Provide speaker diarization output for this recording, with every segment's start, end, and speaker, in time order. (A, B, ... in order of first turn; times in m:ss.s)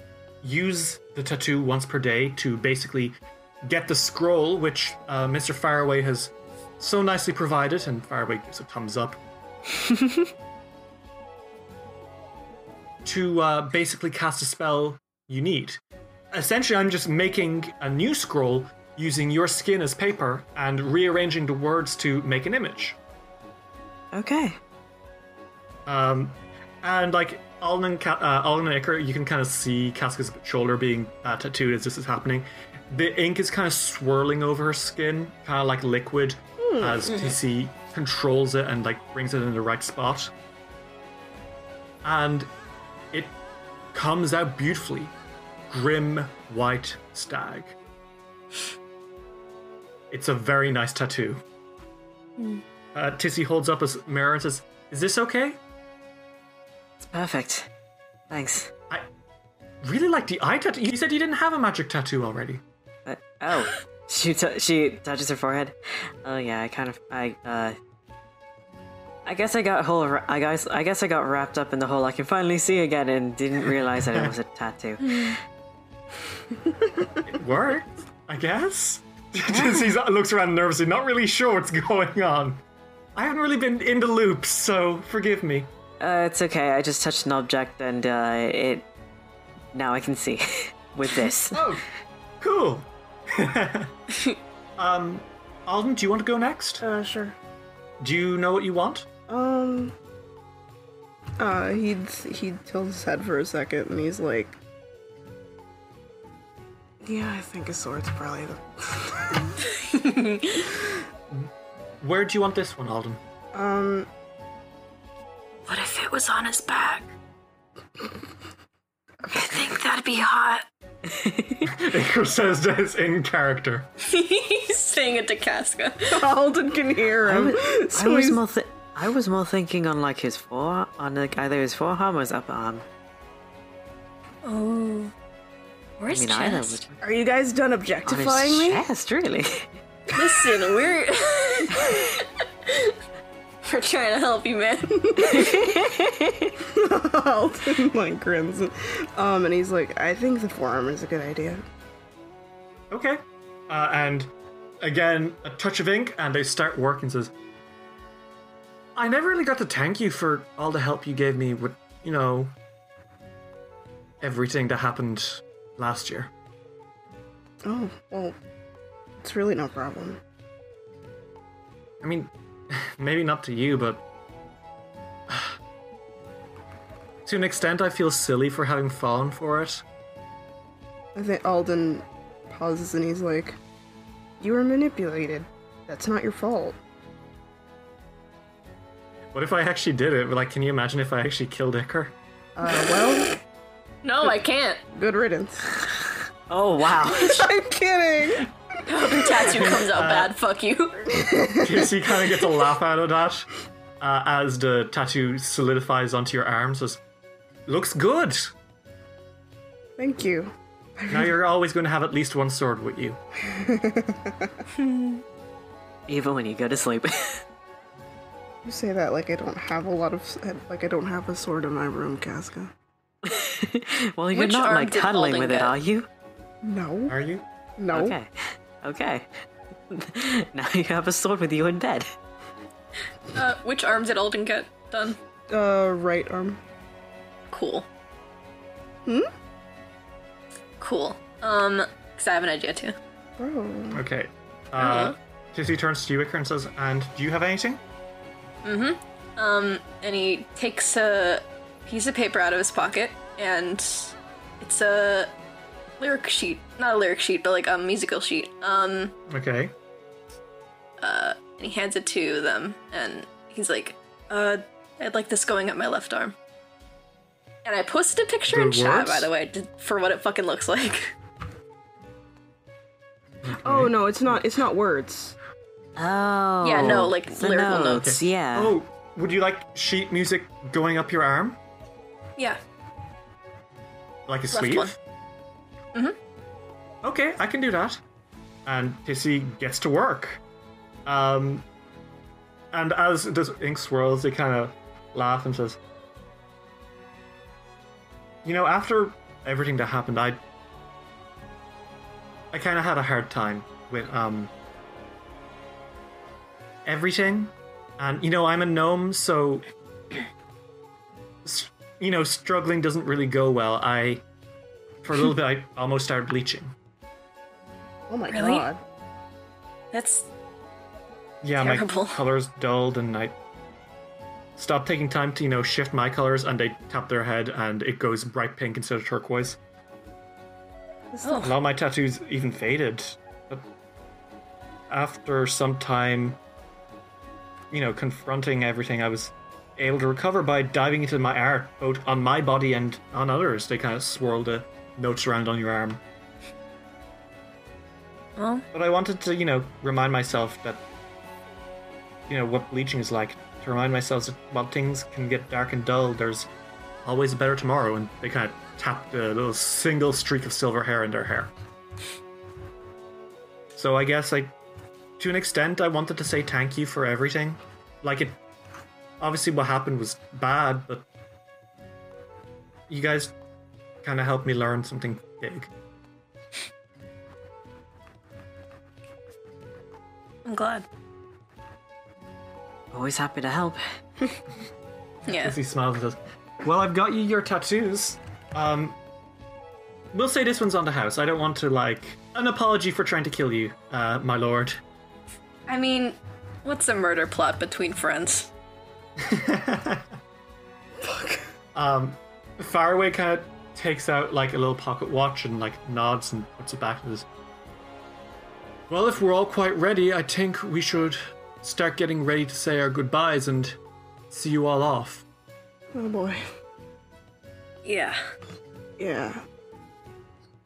0:00.4-0:09.2 A
0:13.0-0:15.8 A
0:16.3-0:23.0 A
0:24.1-0:24.6 B
0:25.8-0:40.3 A
0:36.6-0:37.1 C
0:42.0-0:42.5 A
0:43.9-0:45.1 A
0:45.7-0:47.7 A
0:50.1-0:51.4 A
0:52.9-0:55.6 A
0:57.0-0:57.7 B
0:58.3-0:58.7 B
0:59.8-1:02.6 A
1:03.0-1:07.8 B
1:09.2-1:15.4 B
1:15.0-1:15.3 D
1:17.3-1:22.6 A
1:19.5-1:19.9 B
1:23.2-1:25.7 A
1:26.0-1:28.8 B
1:29.7-1:31.6 B
1:31.5-1:31.8 A
1:32.4-1:33.9 A
1:34.8-1:36.8 A
1:36.8-1:37.3 C
1:38.0-1:39.0 A
1:39.3-1:39.9 C
1:41.4-1:44.6 C
1:47.0-1:49.5 C
1:49.8-1:50.7 D
1:52.0-1:53.2 A
1:53.5-1:54.1 C
1:55.7-1:57.1 D
1:59.3-2:00.6 D
2:01.1-2:01.7 B
2:01.6-2:03.9 A
2:04.0-2:06.2 D
2:06.1-2:08.4 C
2:07.2-2:12.8 B
2:14.4-2:15.1 D
2:16.0-2:16.8 D
2:16.1-2:17.0 B
2:17.0-2:18.8 C
2:18.0-2:19.7 B
2:20.1-2:22.9 D
2:23.6-2:25.0 D
2:25.0-2:25.6 C
2:25.3-2:26.5 B
2:26.7-2:31.6 C
2:32.9-2:34.3 A
2:34.8-2:37.3 A
2:39.0-2:42.5 A
2:44.2-2:46.3 A
2:47.6-2:48.3 C
2:49.2-2:50.2 C
2:52.0-2:54.0 A
2:55.3-2:55.6 A
2:57.2-2:59.8 A
3:01.1-3:03.6 C
3:04.4-3:06.8 C
3:09.3-3:12.1 A
3:12.6-3:13.4 C
3:14.0-3:14.8 D
3:14.9-3:15.8 C
3:16.5-3:17.5 B
3:17.0-3:18.5 C
3:18.9-3:21.0 D
3:19.4-3:20.3 A
3:21.1-3:21.9 C
3:21.6-3:23.5 A
3:24.0-3:27.0 A
3:27.7-3:28.5 A
3:30.0-3:31.3 C
3:31.1-3:33.2 A
3:33.5-3:34.5 C
3:34.8-3:35.2 D
3:36.1-3:37.4 B
3:38.6-3:42.7 C
3:43.2-3:46.1 B
3:44.3-3:45.8 D
3:46.6-3:47.1 C
3:47.1-3:47.4 A
3:47.8-3:48.2 C
3:47.9-3:49.3 B
3:49.9-3:52.1 B
3:53.3-3:55.2 D
3:55.5-3:56.6 C
3:57.5-3:57.8 D
4:00.8-4:03.0 D
4:03.4-4:04.0 C
4:03.9-4:07.8 A
4:04.8-4:05.1 D
4:08.6-4:15.3 D
4:16.0-4:19.1 D
4:19.3-4:19.7 A
4:21.0-4:26.3 D
4:27.6-4:31.1 D
4:28.5-4:29.3 A
4:33.4-4:33.9 A
4:33.6-4:35.3 C
4:36.0-4:38.8 B
4:36.6-4:38.1 D
4:38.0-4:41.6 A
4:44.3-4:45.0 A
4:44.5-4:44.9 D
4:47.0-4:48.0 A
4:48.6-4:50.4 A
4:51.0-4:51.6 A
4:52.7-4:55.8 A
4:58.4-5:00.4 A
5:02.5-5:04.5 A
5:06.8-5:09.6 A
5:11.4-5:14.2 A
5:15.0-5:16.7 A
5:18.1-5:18.8 C
5:18.3-5:18.7 D
5:19.9-5:20.3 D
5:21.4-5:23.3 A
5:21.6-5:22.2 D
5:24.6-5:29.6 A
5:31.1-5:31.4 C
5:31.2-5:31.5 D
5:31.4-5:33.6 A
5:34.9-5:36.4 A
5:37.7-5:46.0 A
5:48.4-5:48.6 D
5:48.7-5:50.8 A
5:52.3-5:56.5 A
5:57.0-6:01.5 A
6:03.7-6:04.5 A
6:05.2-6:08.4 A
6:09.2-6:11.0 A
6:12.9-6:13.3 A
6:14.0-6:15.7 A
6:20.4-6:20.8 D
6:22.9-6:23.8 B
6:25.3-6:25.5 D
6:25.3-6:29.0 A
6:30.1-6:34.8 A
6:35.7-6:38.5 D
6:39.2-6:40.0 A
6:41.0-6:41.4 C
6:41.7-6:47.2 A
6:48.9-6:53.8 A
6:54.3-6:55.2 A
6:55.9-6:56.4 C
6:57.8-6:58.2 D
6:59.0-6:59.4 C